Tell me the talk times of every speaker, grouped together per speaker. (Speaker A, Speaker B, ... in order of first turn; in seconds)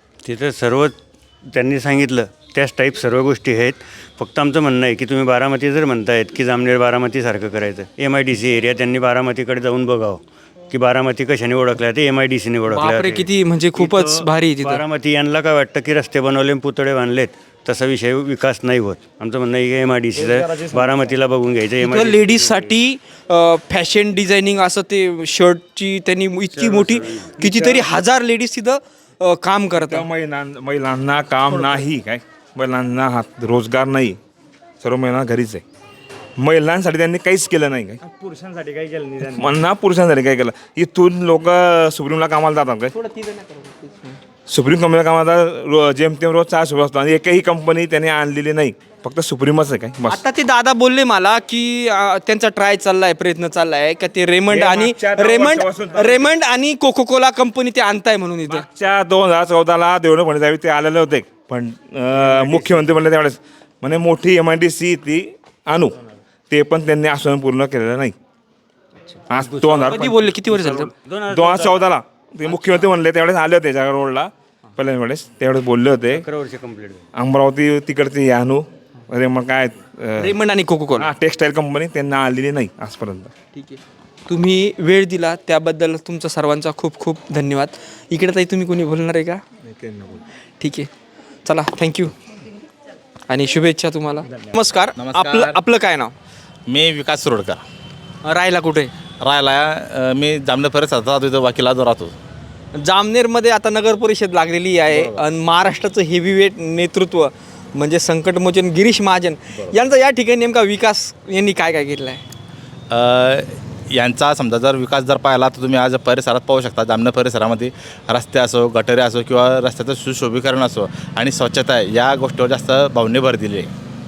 Speaker A: 0.2-22.7, 69.3-71.9, 72.5-72.7, 76.1-77.0
Speaker B: 12.7-14.8, 21.8-30.1, 42.9-44.2, 50.1-58.7, 69.8-70.9, 80.2-81.1, 83.5-89.4, 90.6-90.9, 91.4-92.1, 93.3-96.1, 98.2-98.9, 102.8-112.2
Speaker C: 20.1-21.1, 38.0-39.6
Speaker D: 26.8-28.0, 29.8-34.2, 34.8-35.6, 36.4-38.0, 39.3-42.9, 44.5-50.2, 54.5-56.3, 58.5-66.0, 66.5-68.1, 69.3-70.1, 71.3-76.2, 77.1-80.3, 81.0-83.3, 89.6-90.2
Speaker E: 95.0-95.6, 96.7-97.6, 99.2-102.1, 104.9-105.2, 112.9-123.7